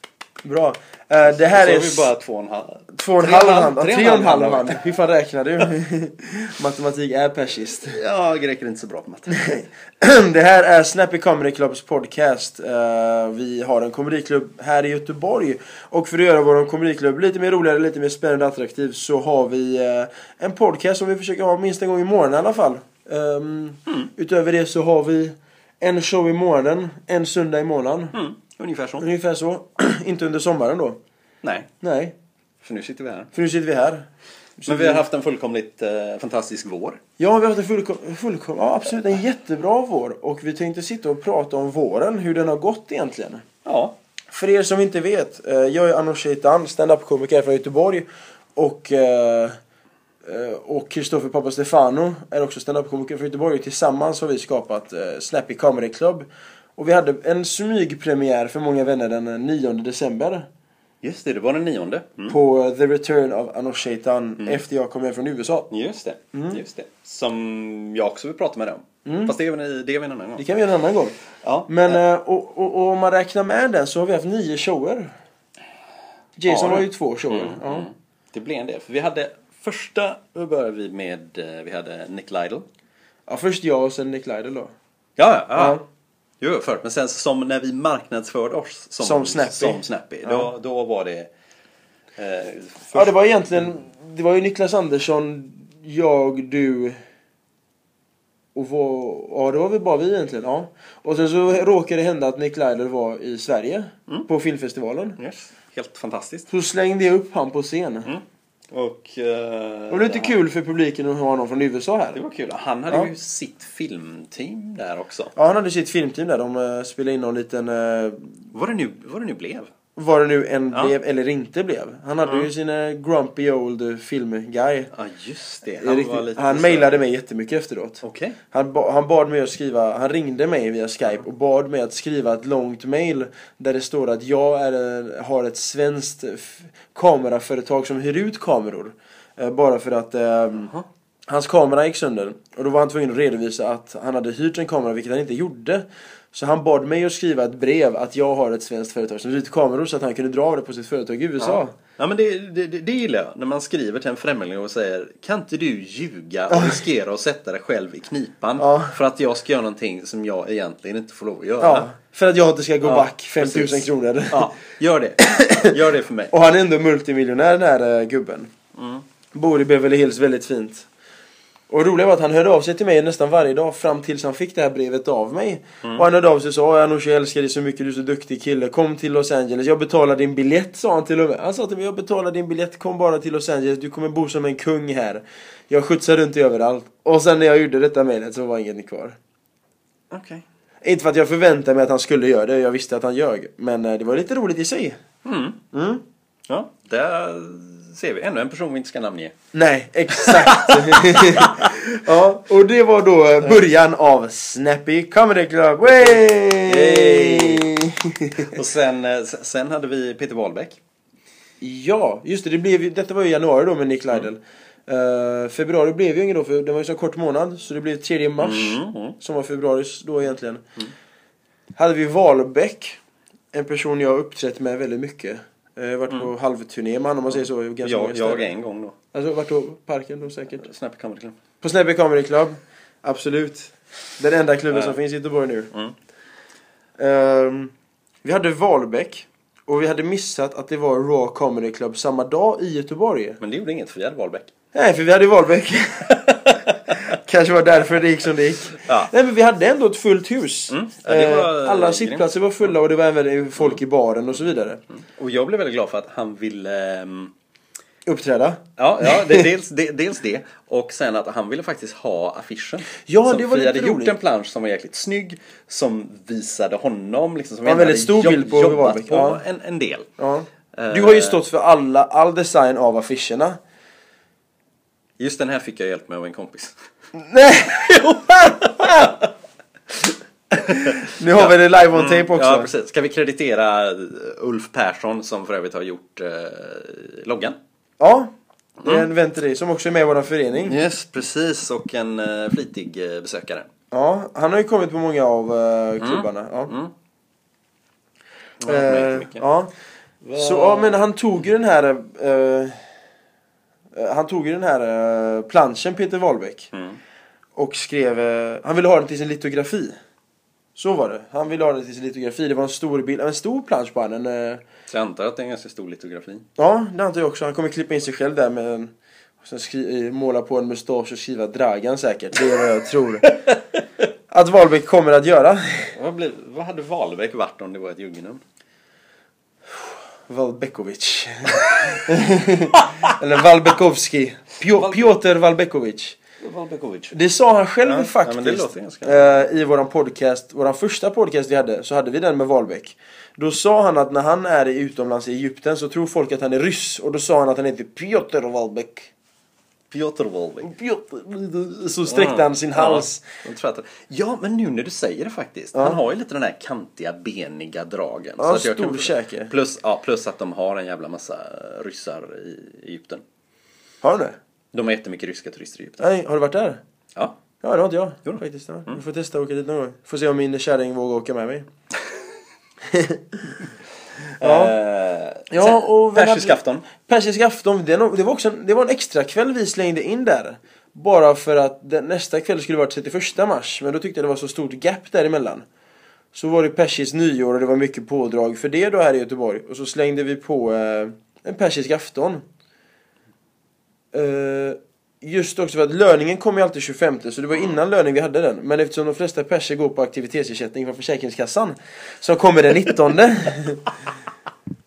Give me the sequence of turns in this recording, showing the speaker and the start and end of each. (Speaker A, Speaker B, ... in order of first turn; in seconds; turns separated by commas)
Speaker A: 0.4-2.1, Speaker B: 1.2-4.8, Speaker A: 2.9-8.0, Speaker B: 7.9-9.5, Speaker A: 9.3-28.1, Speaker B: 28.1-29.0, Speaker A: 29.0-31.0, Speaker B: 31.4-31.7, Speaker A: 31.8-32.1, Speaker B: 32.6-33.3, Speaker A: 33.3-34.0, Speaker A: 34.6-35.0, Speaker B: 34.7-37.0, Speaker A: 37.2-43.4, Speaker B: 43.6-44.0, Speaker A: 44.3-49.6, Speaker A: 50.2-56.2, Speaker A: 56.8-60.5, Speaker B: 61.0-62.4, Speaker A: 62.3-65.7, Speaker B: 65.7-70.4, Speaker A: 66.3-66.6, Speaker A: 69.0-69.3, Speaker A: 70.4-75.1, Speaker B: 71.4-72.0, Speaker A: 76.4-77.9, Speaker B: 76.5-82.6, Speaker A: 83.3-84.7, Speaker B: 85.2-85.8, Speaker A: 85.5-85.8, Speaker B: 86.4-91.3, Speaker A: 89.0-90.5, Speaker B: 92.2-93.1, Speaker A: 92.9-97.0, Speaker A: 98.5-105.2, Speaker B: 105.2-106.5, Speaker A: 106.5-108.1, Speaker B: 108.0-110.4, Speaker A: 109.9-112.2, Speaker B: 112.1-115.3, Speaker A: 115.3-118.3, Speaker B: 118.5-119.7, Speaker A: 120.0-124.9, Speaker B: 122.2-122.5, Speaker B: 124.9-127.0, Speaker A: 125.8-140.7, Speaker B: 128.0-128.4, Speaker A: 141.3-151.7, Speaker B: 151.4-161.9, Speaker A: 156.5-156.8, Speaker A: 158.6-158.9, Speaker A: 161.6-164.4, Speaker B: 162.8-166.3, Speaker A: 165.2-165.7, Speaker A: 166.3-168.5, Speaker B: 168.7-169.0, Speaker A: 169.3-170.8, Speaker A: 171.7-189.2, Speaker B: 190.1-190.4, Speaker A: 190.8-195.0, Speaker B: 195.2-195.6, Speaker A: 195.7-196.0, Speaker B: 196.5-199.3, Speaker A: 199.5-208.6, Speaker B: 200.1-201.8, Speaker B: 205.8-207.7, Speaker B: 208.4-210.8, Speaker A: 211.6-220.6, Speaker B: 218.4-219.2, Speaker A: 221.8-223.0, Speaker A: 223.5-228.5, Speaker B: 227.3-229.0, Speaker A: 229.1-230.7, Speaker B: 230.6-231.4, Speaker A: 231.6-235.7, Speaker B: 234.7-235.0, Speaker A: 237.0-237.7, Speaker A: 238.2-243.4, Speaker B: 243.4-244.5, Speaker A: 244.7-254.8, Speaker B: 246.3-246.9, Speaker B: 248.8-249.1, Speaker B: 250.7-252.7, Speaker B: 255.0-257.3, Speaker A: 258.1-259.5, Speaker B: 258.8-270.1, Speaker A: 263.0-264.1, Speaker A: 267.6-269.4, Speaker A: 270.2-273.6, Speaker B: 270.7-271.4, Speaker B: 275.2-276.8, Speaker A: 277.1-279.2, Speaker B: 278.4-279.1, Speaker A: 280.5-282.7, Speaker B: 280.7-287.6, Speaker A: 288.0-288.3, Speaker B: 288.8-289.1, Speaker A: 288.8-290.8, Speaker B: 290.6-293.7, Speaker A: 293.9-296.7, Speaker B: 296.0-296.9, Speaker B: 298.6-299.4, Speaker A: 298.6-299.7, Speaker B: 300.2-301.0, Speaker A: 300.3-302.8, Speaker A: 303.9-306.7, Speaker B: 306.7-307.0, Speaker A: 307.6-309.9, Speaker A: 310.8-314.6, Speaker B: 314.9-316.4, Speaker A: 316.6-323.4, Speaker A: 324.3-325.9, Speaker B: 325.9-328.4, Speaker A: 330.3-336.2, Speaker B: 334.8-335.0, Speaker B: 336.4-337.1, Speaker A: 337.1-349.1, Speaker B: 337.8-339.3, Speaker B: 349.9-350.7, Speaker A: 350.6-353.2, Speaker B: 352.1-363.2, Speaker A: 358.4-359.5, Speaker A: 364.0-364.4, Speaker B: 364.7-366.0, Speaker A: 366.0-366.8, Speaker B: 367.1-367.4, Speaker A: 367.6-371.6, Speaker A: 372.9-373.6, Speaker A: 374.4-374.7, Speaker B: 374.4-376.9, Speaker A: 375.5-385.6, Speaker A: 386.3-392.4, Speaker A: 394.1-403.9